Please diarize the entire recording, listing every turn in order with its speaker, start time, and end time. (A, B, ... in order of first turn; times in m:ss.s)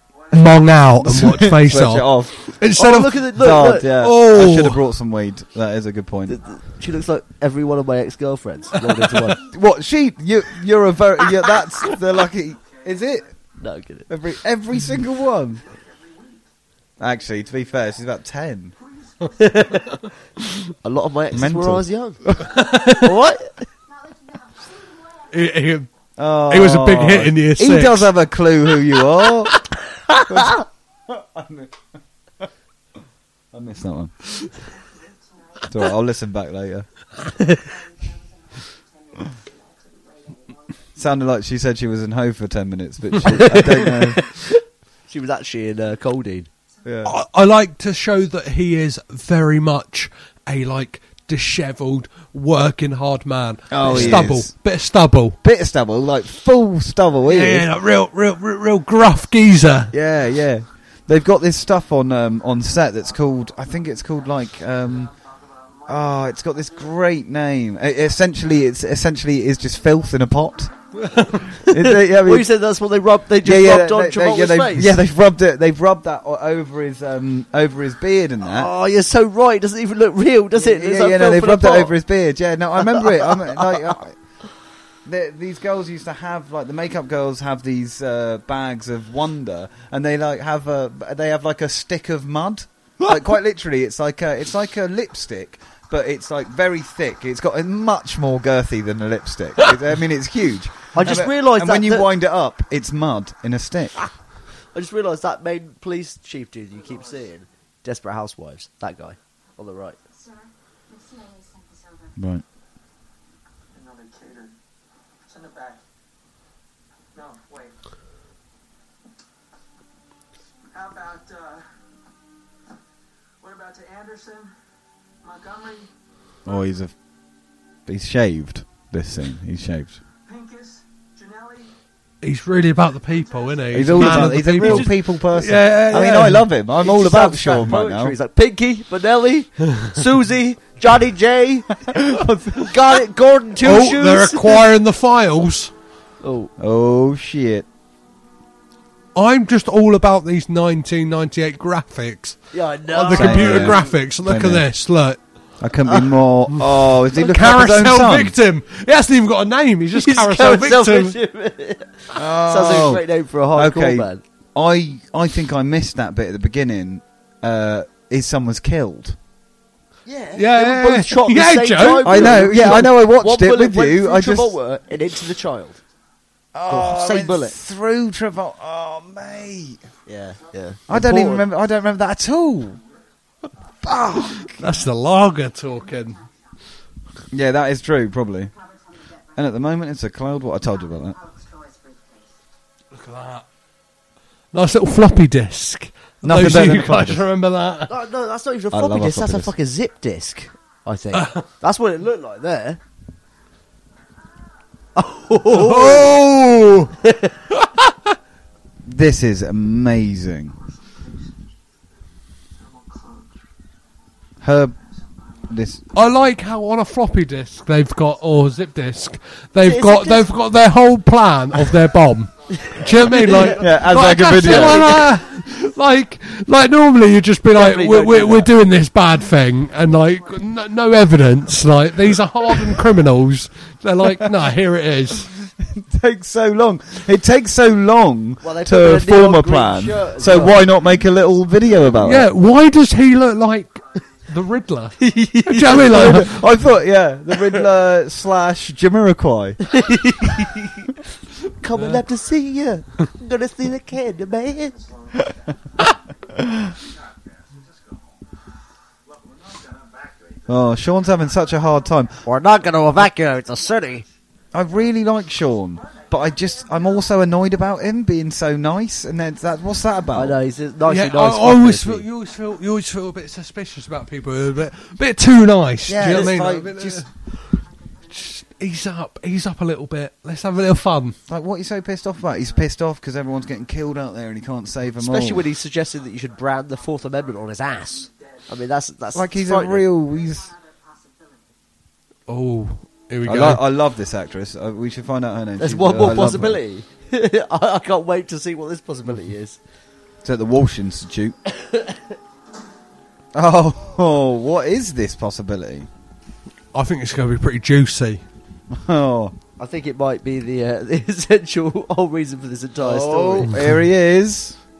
0:00.3-0:04.8 A
0:01.0-0:02.5 B
0:02.7-0:03.9 C
0:03.4-0:06.4 B
0:06.3-0:09.4 C
0:09.4-0:13.3 B
0:13.6-0:14.1 C
0:14.1-0:15.6 B
0:17.0-0:18.7 B
0:19.2-0:20.0 D
0:19.4-0:20.0 C
0:20.8-0:23.6 C
0:21.3-0:22.5 B
0:22.5-0:23.2 A
0:23.9-0:25.7 E
0:25.3-0:25.9 A
0:26.2-0:29.6 B
0:26.5-0:28.1 A
0:30.2-0:31.8 B
0:33.5-0:34.1 B
0:35.0-0:35.7 E
0:35.7-0:36.8 B
0:37.4-0:40.8 E
0:41.0-0:44.2 B
0:43.2-0:46.5 C
0:46.8-0:47.1 B
0:47.0-0:55.4 A
0:53.7-0:54.5 B
0:55.4-0:57.7 B
0:57.2-0:59.9 A
0:59.9-1:05.1 B
1:05.9-1:10.7 B
1:11.0-1:11.4 A
1:11.5-1:15.0 C
1:11.6-1:12.5 B
1:13.4-1:18.7 B
1:18.4-1:21.9 C
1:20.6-1:24.2 B
1:22.9-1:23.9 C
1:25.0-1:43.9 B
1:40.9-1:42.1 C
1:44.7-1:50.0 C
1:50.1-1:52.2 E
1:52.2-1:52.4 B
1:53.7-1:54.6 D
1:55.3-1:55.8 D
1:57.1-1:57.8 D
2:00.7-2:01.7 D
2:03.4-2:04.5 D
2:05.2-2:05.9 D
2:06.4-2:06.9 B
2:07.8-2:10.0 B
2:10.2-2:11.7 D
2:12.2-2:16.5 A
2:13.3-2:13.6 D
2:13.7-2:18.2 B
2:14.0-2:14.9 C
2:16.8-2:22.0 C
2:21.8-2:22.8 B
2:22.5-2:24.7 C
2:23.6-2:25.7 A
2:26.2-2:26.5 C
2:26.6-2:27.6 B
2:29.1-2:35.2 A
2:32.5-2:33.9 C
2:33.1-2:34.6 B
2:35.6-2:38.3 B
2:36.6-2:41.2 A
2:39.9-2:44.2 C
2:42.1-2:49.2 B
2:50.0-2:55.8 C
2:50.4-2:52.7 A
2:52.0-2:54.5 B
2:56.5-2:59.8 B
2:56.7-2:57.6 C
3:00.1-3:01.5 C
3:00.9-3:02.8 B
3:03.8-3:04.7 B
3:04.6-3:06.2 A
3:05.8-3:06.5 E
3:07.3-3:08.5 B
3:08.5-3:09.4 E
3:09.4-3:11.2 B
3:10.8-3:12.4 E
3:12.9-3:13.4 A
3:14.5-3:17.9 A
3:16.2-3:17.2 B
3:17.9-3:22.8 C
3:18.7-3:19.5 B
3:21.1-3:21.4 A
3:25.0-3:26.2 C
3:25.4-3:26.9 A
3:27.0-3:27.3 C
3:28.8-3:30.6 B
3:30.9-3:31.3 D
3:32.6-3:33.3 D
3:34.4-3:34.7 B
3:35.5-3:35.8 B
3:35.9-3:55.3 A
3:39.6-3:40.3 C
3:42.6-3:43.6 C
3:43.5-3:45.0 B
3:44.2-3:45.0 C
3:47.5-3:48.5 C
3:55.7-4:02.3 B
3:58.4-4:00.6 C
4:02.0-4:06.4 A
4:05.0-4:06.3 C
4:05.8-4:09.6 B
4:09.6-4:10.9 C
4:11.6-4:14.8 C
4:11.8-4:12.0 A
4:14.7-4:15.5 D
4:16.4-4:16.7 B
4:17.6-4:18.0 D
4:19.1-4:20.4 D
4:20.5-4:22.2 B
4:22.2-4:24.0 C
4:24.5-4:30.4 B
4:30.1-4:32.0 C
4:30.8-4:37.6 A
4:35.9-4:37.0 B
4:37.9-4:38.4 E
4:38.1-4:41.2 A
4:41.3-4:45.5 B
4:45.0-4:49.9 C
4:49.1-4:50.5 B
4:50.0-4:51.4 E
4:52.3-4:53.6 A
4:53.2-4:56.6 B
4:55.6-4:59.6 C
5:00.2-5:01.4 B
5:01.5-5:02.0 C
5:03.3-5:05.9 B
5:06.7-5:08.2 A
5:08.7-5:09.3 B
5:09.6-5:13.5 C
5:12.8-5:14.6 B